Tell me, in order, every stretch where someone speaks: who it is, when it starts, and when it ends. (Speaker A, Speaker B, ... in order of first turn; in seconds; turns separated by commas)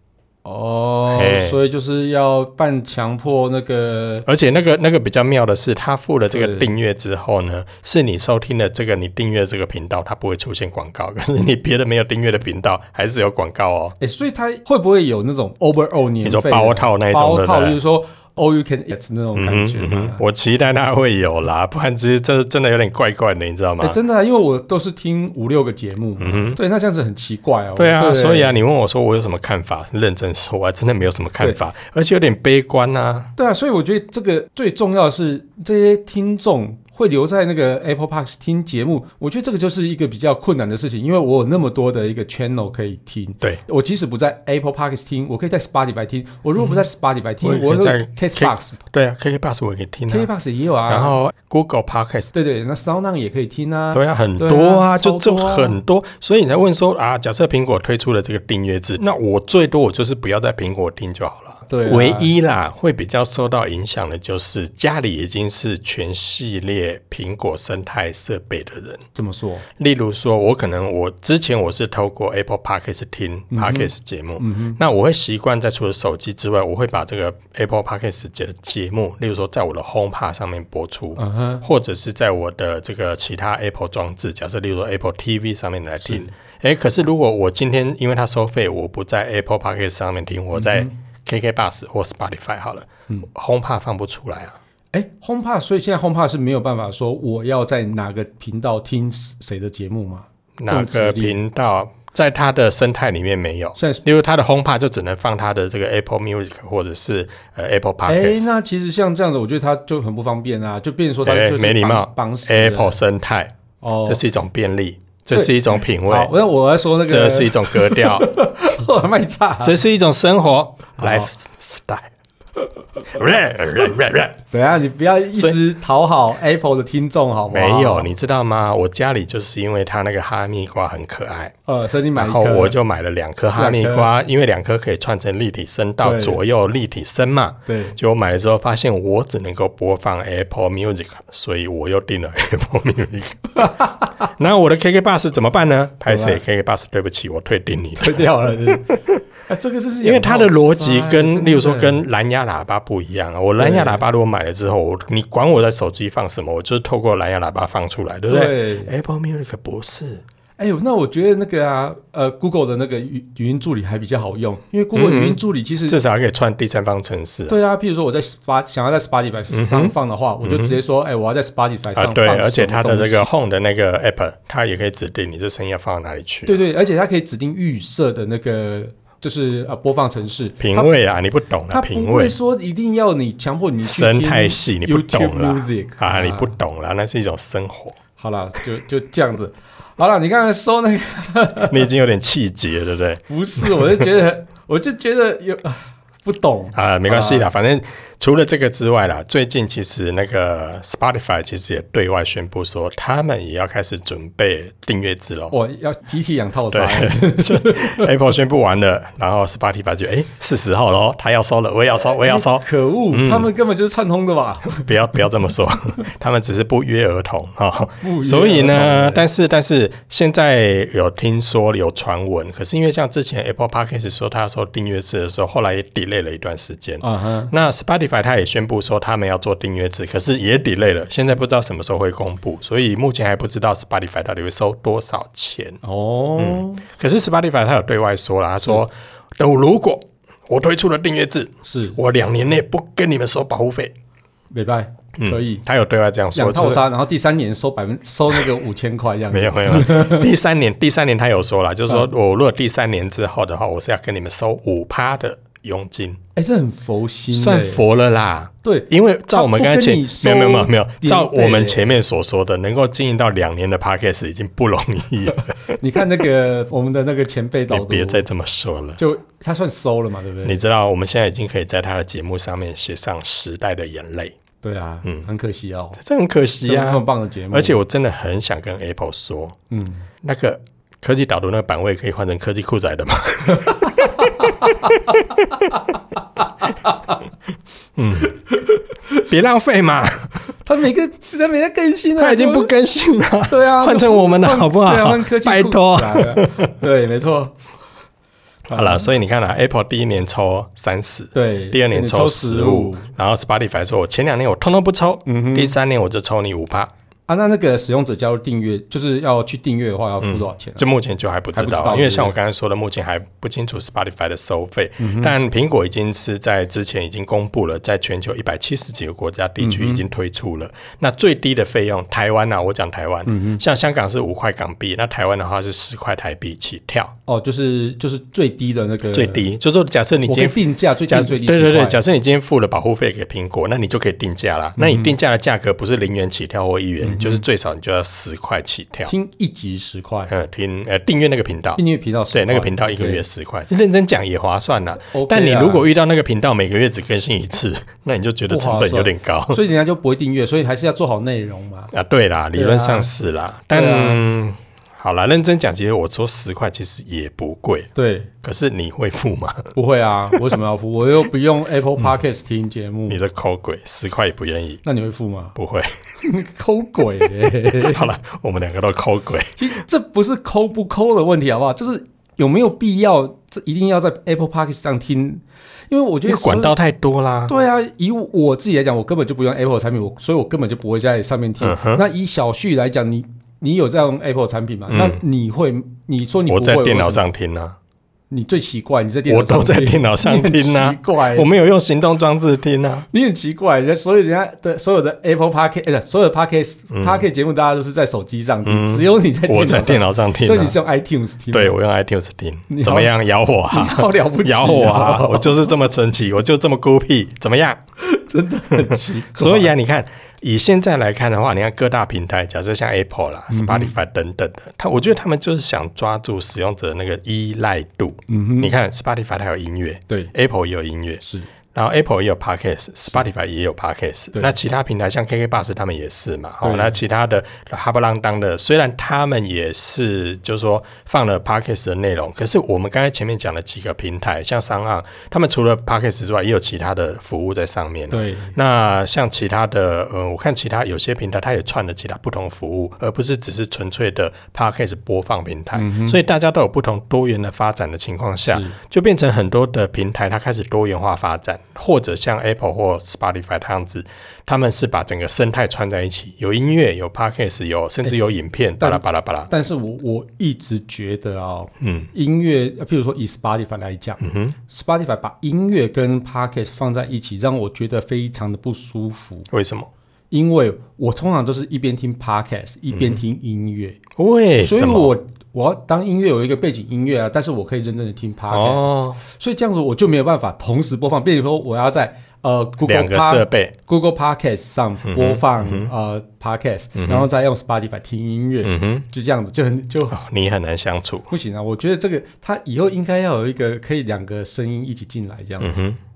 Speaker A: 0.4-4.3, Speaker B: 1.1-1.6, Speaker B: 4.2-13.9, Speaker A: 6.3-6.7, Speaker A: 14.0-20.2, Speaker B: 16.2-17.8, Speaker B: 19.3-24.0, Speaker A: 23.8-28.6, Speaker B: 26.2-26.6, Speaker B: 27.8-33.3, Speaker A: 33.4-48.8, Speaker B: 46.6-46.8, Speaker B: 47.4-50.3, Speaker A: 50.1-51.2, Speaker B: 50.9-52.3, Speaker A: 52.3-55.8, Speaker B: 53.9-69.0, Speaker A: 61.7-62.3, Speaker A: 69.1-69.7, Speaker B: 69.8-94.6, Speaker A: 73.5-74.8, Speaker A: 81.2-81.6, Speaker A: 90.5-90.9, Speaker A: 94.9-101.4, Speaker B: 100.6-108.5, Speaker A: 103.8-104.0, Speaker A: 108.0-113.0, Speaker B: 111.2-116.3, Speaker A: 113.8-114.2, Speaker A: 115.3-119.8, Speaker B: 117.0-118.3, Speaker B: 119.6-122.1, Speaker A: 121.0-121.3, Speaker B: 123.0-124.4, Speaker A: 124.5-128.1, Speaker B: 127.5-131.5, Speaker A: 131.7-132.8, Speaker B: 132.1-149.2, Speaker A: 133.6-134.1, Speaker A: 136.0-136.4, Speaker A: 137.7-137.9, Speaker A: 143.6-144.2, Speaker A: 146.1-146.4, Speaker A: 148.0-152.0, Speaker B: 150.0-160.2, Speaker A: 153.6-154.0, Speaker A: 158.3-158.9, Speaker A: 160.6-166.0, Speaker B: 164.9-167.6, Speaker A: 167.5-173.3, Speaker B: 169.5-170.8, Speaker B: 171.9-176.6, Speaker A: 176.4-180.9, Speaker B: 180.6-182.3, Speaker A: 181.7-186.5, Speaker B: 183.8-187.9, Speaker A: 188.2-191.9, Speaker B: 191.7-194.0, Speaker A: 193.3-197.5, Speaker B: 196.7-205.5, Speaker A: 205.5-208.1, Speaker B: 206.7-213.5, Speaker A: 212.2-214.9, Speaker B: 214.7-235.8, Speaker A: 218.0-219.3, Speaker A: 227.0-227.5, Speaker A: 235.8-236.8, Speaker B: 236.4-243.9, Speaker A: 241.7-242.0, Speaker A: 244.5-245.6, Speaker B: 245.2-246.8, Speaker A: 246.3-250.3, Speaker B: 249.3-256.2, Speaker A: 256.4-257.8, Speaker B: 257.3-265.8, Speaker A: 258.6-261.9, Speaker A: 265.8-268.2, Speaker B: 267.7-269.0, Speaker A: 269.0-270.6, Speaker B: 270.4-274.3, Speaker A: 274.6-276.0, Speaker B: 276.0-279.6, Speaker A: 276.6-277.8, Speaker A: 279.7-280.1, Speaker B: 280.2-285.4, Speaker A: 283.5-287.2, Speaker B: 287.9-288.4, Speaker A: 288.3-289.2, Speaker B: 289.2-290.3, Speaker A: 290.6-292.7, Speaker B: 292.2-296.7, Speaker A: 293.5-297.5, Speaker A: 298.7-299.1, Speaker B: 298.7-306.9, Speaker A: 301.3-303.1, Speaker A: 305.2-305.8, Speaker A: 307.3-310.9, Speaker B: 310.2-327.1, Speaker A: 311.5-312.3, Speaker A: 315.0-315.3, Speaker A: 319.6-320.0, Speaker A: 323.2-323.6, Speaker A: 327.3-329.5, Speaker B: 329.1-339.1, Speaker A: 330.3-332.0, Speaker A: 334.8-335.1, Speaker A: 337.0-337.4, Speaker A: 339.1-340.3, Speaker B: 340.3-341.8, Speaker A: 341.8-343.2, Speaker B: 342.3-349.6, Speaker A: 345.1-345.9, Speaker A: 348.5-351.9, Speaker B: 351.9-357.9, Speaker A: 352.5-353.1, Speaker A: 353.7-354.2, Speaker A: 357.9-358.3, Speaker B: 358.4-359.7, Speaker A: 359.7-363.2, Speaker B: 363.1-364.8, Speaker A: 364.8-365.6, Speaker B: 365.6-365.9, Speaker A: 366.2-368.1, Speaker B: 367.8-369.6, Speaker A: 369.6-376.7, Speaker B: 376.2-377.5, Speaker A: 377.5-387.2, Speaker B: 381.6-382.0, Speaker B: 384.9-385.2, Speaker B: 386.5-387.8, Speaker A: 388.3-391.5, Speaker B: 389.3-393.1, Speaker A: 393.1-401.8, Speaker B: 396.9-397.2, Speaker B: 398.6-400.8, Speaker B: 401.5-407.8, Speaker A: 402.7-403.1, Speaker A: 403.7-405.7, Speaker A: 408.0-409.7, Speaker B: 408.7-421.2, Speaker A: 413.5-413.9, Speaker A: 418.3-418.7, Speaker A: 421.2-421.5, Speaker B: 421.7-459.5, Speaker A: 426.6-427.0, Speaker A: 438.1-438.5, Speaker A: 445.7-446.2, Speaker A: 448.4-448.8, Speaker A: 458.8-469.5, Speaker B: 461.8-462.1, Speaker B: 464.2-464.6, Speaker B: 469.5-469.9, Speaker A: 470.3-474.0, Speaker B: 472.9-473.2, Speaker B: 474.2-475.1, Speaker A: 474.6-490.2, Speaker B: 478.5-479.2, Speaker B: 482.8-483.7, Speaker B: 485.0-485.9, Speaker B: 486.9-487.3, Speaker B: 488.6-489.1, Speaker B: 490.1-491.3, Speaker A: 491.3-495.8, Speaker B: 495.6-496.0